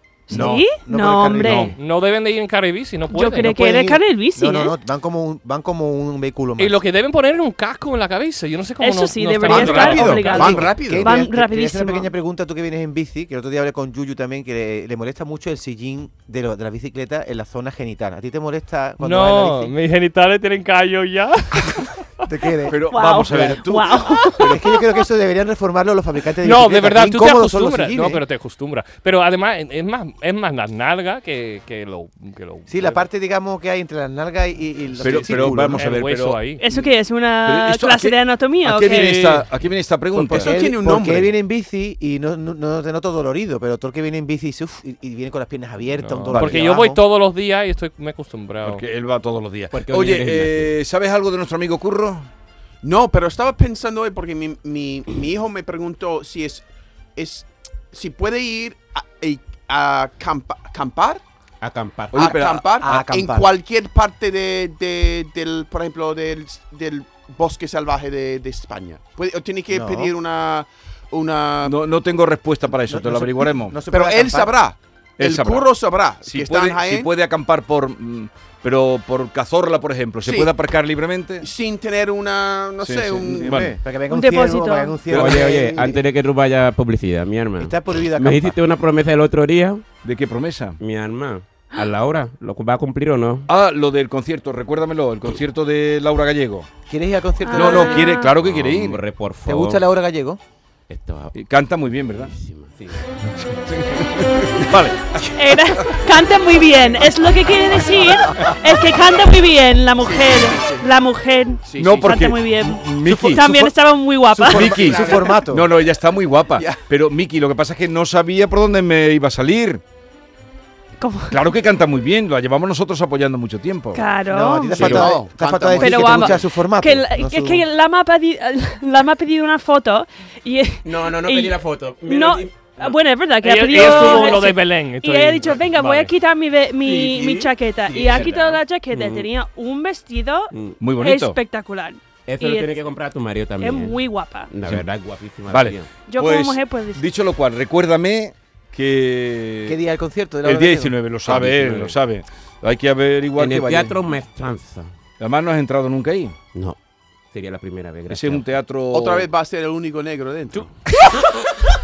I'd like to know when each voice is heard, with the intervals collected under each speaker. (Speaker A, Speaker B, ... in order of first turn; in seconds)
Speaker A: 0.3-1.7, 3.1-4.8, 8.8-12.1, 22.9-24.8, 36.6-39.2, 84.1-85.0, 97.4-98.3, 105.3-114.9, 121.0-121.4, 123.9-125.0, 125.8-142.7, 143.6-144.5, 146.1-147.0
Speaker B: 0.3-0.7, 1.4-1.7, 22.7-24.6, 35.0-36.9, 37.4-40.6, 46.3-46.6, 48.6-52.3, 62.1-62.6, 71.7-73.8, 75.2-75.7, 76.2-81.5, 82.8-83.8, 85.1-85.6, 90.0-90.8, 93.5-96.7, 97.5-99.0, 101.3-102.3, 103.4-106.0, 111.8-113.8, 114.4-119.8, 121.3-124.1, 140.8-141.4, 145.5-149.8, 150.4-153.9, 155.2-156.3, 158.1-159.3
Speaker C: 0.3-1.8, 3.5-6.8, 10.4-19.7, 22.2-23.5, 24.2-28.2, 32.7-35.8, 40.2-47.0, 62.8-63.5, 69.7-70.1, 72.7-74.5, 83.4-86.0, 87.6-88.6, 96.9-98.1, 99.5-100.4, 114.3-115.7, 124.3-127.6, 149.7-151.0
Speaker D: 1.8-3.7, 6.6-10.7, 19.0-22.2, 26.4-33.0, 35.0-36.6, 38.8-39.5, 45.9-48.8, 133.4-136.1
Speaker E: 9.4-11.2, 40.1-41.3, 52.8-56.6, 57.1-61.2, 62.1-71.8, 73.9-77.1, 80.2-80.5, 81.4-83.6, 110.0-110.8, 111.7-112.1, 114.8-115.4, 116.5-116.8, 124.7-126.4, 158.9-160.7
Speaker F: 49.7-50.7, 61.6-62.4, 85.1-89.9, 90.8-93.5, 98.3-99.8, 100.9-101.4, 102.0-103.0, 130.8-133.0, 133.6-134.5, 136.8-139.3, 140.5-140.8, 142.3-144.0, 144.5-145.9, 151.2-152.0, 153.3-154.9, 157.3-158.5